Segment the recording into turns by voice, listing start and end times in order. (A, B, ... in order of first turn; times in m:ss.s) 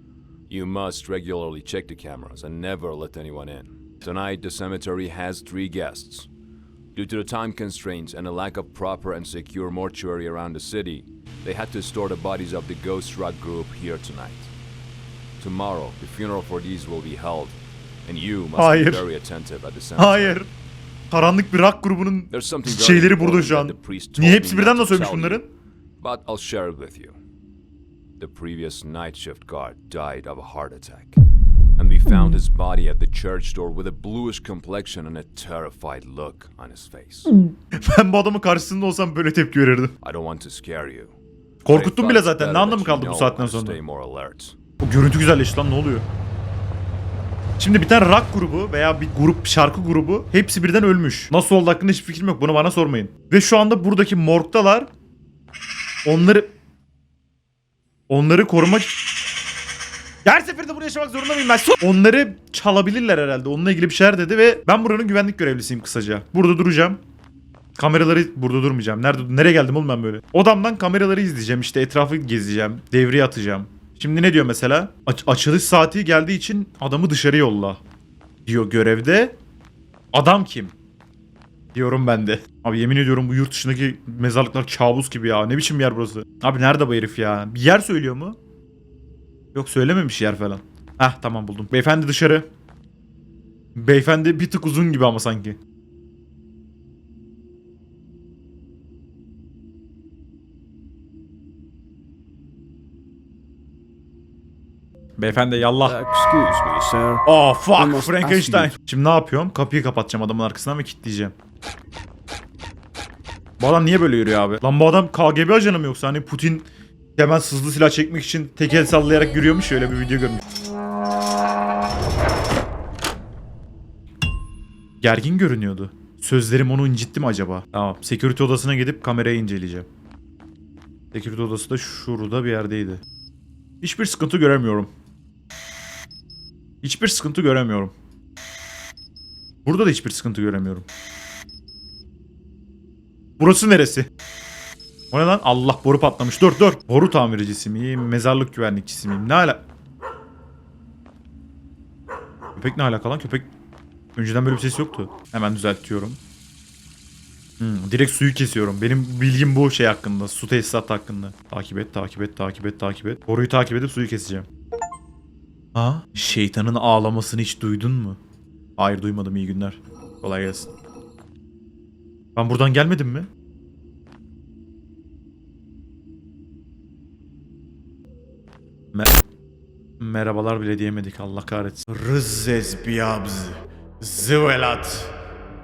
0:00.5-0:06.3 A
0:06.9-0:14.5 A
0:15.4-0:20.4 A
0:18.6-0:19.0 B
0:20.0-0:20.5 B
0:21.1-0:25.5 B
0:22.3-0:25.4 A
0:26.0-0:27.1 A
0:28.2-0:31.2 A
0:31.8-0:37.3 A
0:37.3-0:39.9 B
0:40.0-0:41.1 A
0:41.6-0:43.8 B
0:41.7-0:44.6 A
0:44.8-0:46.0 B
0:47.6-0:54.9 B
0:56.0-0:56.5 B
0:58.1-0:58.9 B
1:00.2-1:07.0 B
1:07.8-1:17.8 B
1:18.4-1:19.4 B
1:20.1-1:20.7 B
1:21.7-1:28.4 B
1:29.5-1:32.4 B
1:33.7-1:35.6 B
1:45.2-1:46.0 B
1:45.8-1:47.2 C
1:47.2-1:51.3 B
1:47.8-1:48.7 C
1:53.6-2:00.4 B
2:05.0-2:09.9 B
2:11.1-2:13.0 B
2:13.8-2:14.9 B
2:16.8-2:17.9 B
2:19.6-2:20.8 B
2:23.4-2:24.1 B
2:25.1-2:29.6 B
2:32.6-2:33.5 B
2:34.2-2:36.2 B
2:37.6-2:44.4 B
2:45.7-2:48.2 B
2:48.8-2:50.7 B
2:52.4-2:53.3 B
3:00.0-3:05.1 B